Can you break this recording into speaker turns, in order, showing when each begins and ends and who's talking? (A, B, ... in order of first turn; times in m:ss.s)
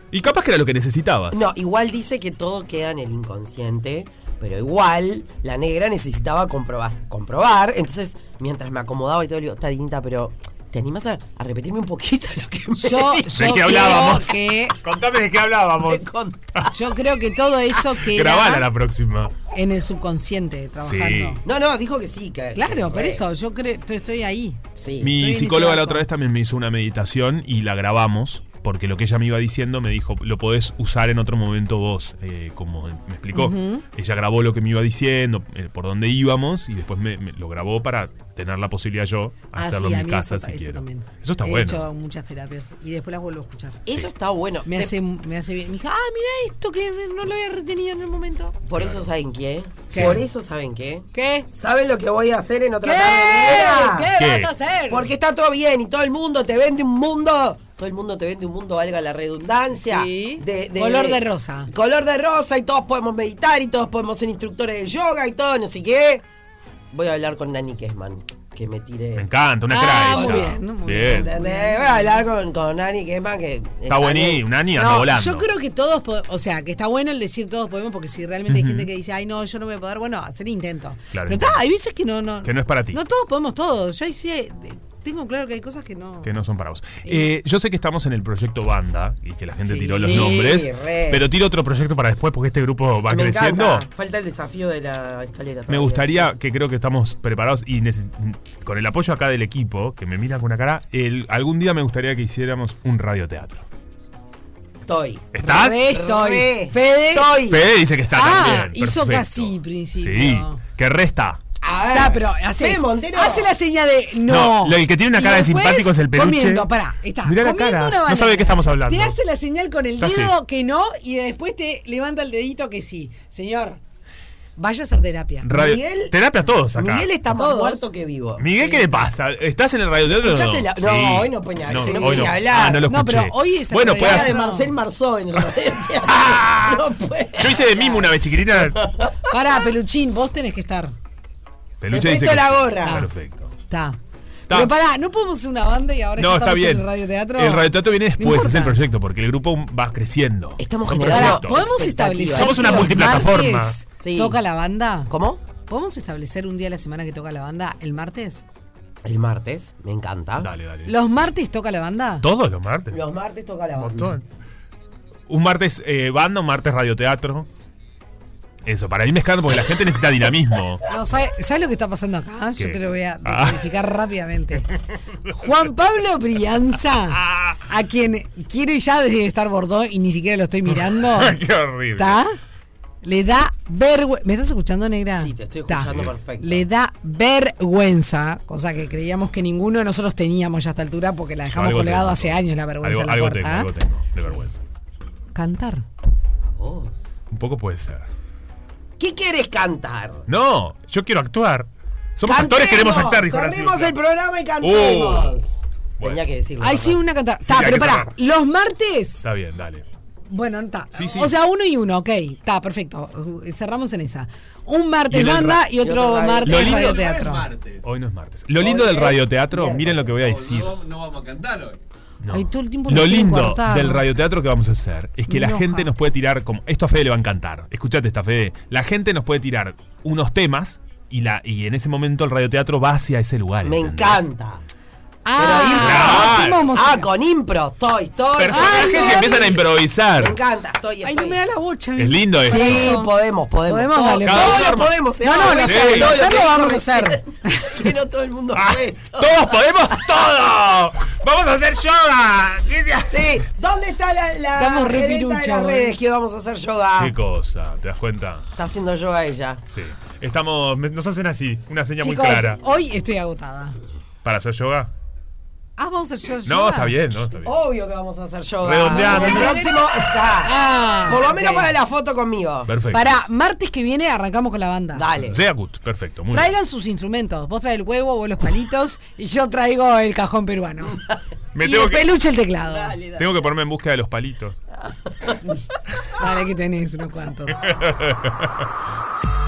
0:00.1-0:01.4 A
0:01.3-0:14.2 B
0:12.8-0:14.8 C
0:13.3-0:16.1 A
0:15.7-0:16.8 B
0:16.6-0:18.7 C
0:18.0-0:19.3 A
0:19.5-0:21.4 C
0:20.8-0:21.4 A
0:21.4-0:23.2 B
0:22.5-0:26.0 C
0:24.7-0:25.1 B
0:25.0-0:41.8 A
0:33.3-0:33.8 C
0:39.5-0:43.8 C
0:43.8-0:44.9 B
0:44.6-0:48.6 C
0:48.6-0:54.1 B
0:48.7-0:49.1 A
0:49.9-0:50.2 C
0:49.9-0:50.2 A
0:51.1-0:51.5 C
0:52.8-0:55.1 C
0:54.2-0:54.5 A
0:54.9-1:06.2 B
0:59.8-1:01.7 C
1:06.9-1:14.5 B
1:09.2-1:11.3 A
1:09.7-1:12.2 C
1:13.9-1:15.5 A
1:14.7-1:26.3 C
1:18.5-1:18.9 A
1:21.1-1:21.6 A
1:22.4-1:23.0 A
1:26.2-1:33.9 A
1:29.6-1:30.2 C
1:29.6-1:31.3 B
1:33.1-1:36.4 B
1:35.7-1:43.7 A
1:44.9-1:45.3 B
1:45.3-1:45.9 A
1:45.4-1:47.4 C
1:45.8-1:47.8 B
1:47.4-1:51.4 A
1:48.1-1:50.6 C
1:51.6-1:53.5 B
1:51.9-2:03.8 C
1:54.3-1:56.7 A
1:57.2-1:59.2 A
2:00.0-2:00.3 A
2:04.6-2:05.5 C
2:05.4-2:07.1 A
2:05.5-2:09.1 B
2:07.3-2:07.8 C
2:08.4-2:14.4 A
2:10.1-2:12.9 B
2:11.7-2:14.7 C
2:13.9-2:19.7 B
2:15.4-2:16.8 A
2:17.4-2:18.9 A
2:19.2-2:20.9 C
2:21.8-2:23.5 A
2:21.9-2:23.0 B
2:22.8-2:23.1 C
2:23.7-2:24.0 C
2:24.5-2:28.8 C
2:26.2-2:31.7 A
2:30.6-2:34.4 B
2:31.0-2:35.1 C
2:32.3-2:33.8 A
2:35.1-2:35.4 B
2:35.6-2:38.4 C
2:39.0-2:40.5 B
2:40.4-2:41.0 A
2:40.8-2:42.2 C
2:42.2-2:43.0 A
2:42.9-2:44.2 B
2:43.8-2:44.2 A
2:45.3-2:47.5 A
2:48.6-2:50.8 A
2:50.9-2:54.7 C
2:52.6-2:53.7 A
2:55.4-3:01.4 C
2:57.1-2:57.5 A
3:00.7-3:02.2 A
3:02.0-3:02.4 C
3:03.0-3:13.7 C
3:05.1-3:06.7 B
3:11.5-3:14.6 A
3:15.3-3:15.8 C
3:16.4-3:17.2 B
3:17.3-3:18.1 A
3:19.0-3:20.2 B
3:20.3-3:24.0 A
3:22.2-3:27.0 B
3:24.6-3:25.4 A
3:26.6-3:29.2 C
3:27.4-3:28.1 A
3:29.2-3:29.8 A
3:30.3-3:37.4 C
3:30.9-3:31.3 A
3:35.1-3:35.6 A
3:35.6-3:36.7 B
3:36.4-3:37.0 A
3:36.6-3:37.9 D
3:37.8-3:40.7 A
3:38.6-3:40.2 B
3:40.1-3:41.8 D
3:42.2-3:54.3 A
3:42.3-3:44.1 C
3:45.3-3:45.9 C
3:53.6-3:54.6 B
3:55.2-3:57.1 C
3:55.3-4:01.4 B
3:55.6-3:56.7 A
3:58.4-4:00.4 A
3:58.5-3:59.6 C
4:01.0-4:03.1 C
4:02.0-4:02.9 A
4:02.4-4:10.1 B
4:03.6-4:07.9 C
4:04.2-4:05.0 A
4:05.6-4:06.3 A
4:08.5-4:13.4 A
4:13.1-4:17.2 B
4:14.6-4:16.0 C
4:17.0-4:18.5 A
4:18.6-4:19.6 B
4:19.7-4:22.6 A
4:22.0-4:23.8 C
4:24.2-4:24.9 A
4:25.8-4:27.0 C
4:26.4-4:27.5 A
4:27.4-4:32.7 B
4:28.6-4:29.6 A
4:28.8-4:29.8 C
4:30.4-4:31.7 C
4:32.7-4:33.2 A
4:32.9-4:35.1 C
4:34.9-4:35.4 B
4:35.2-4:36.5 A
4:36.3-4:41.1 C
4:41.5-4:42.2 A
4:41.6-4:43.0 C
4:42.6-4:43.5 B
4:43.1-4:44.6 A
4:45.5-4:47.6 C
4:47.6-4:48.6 A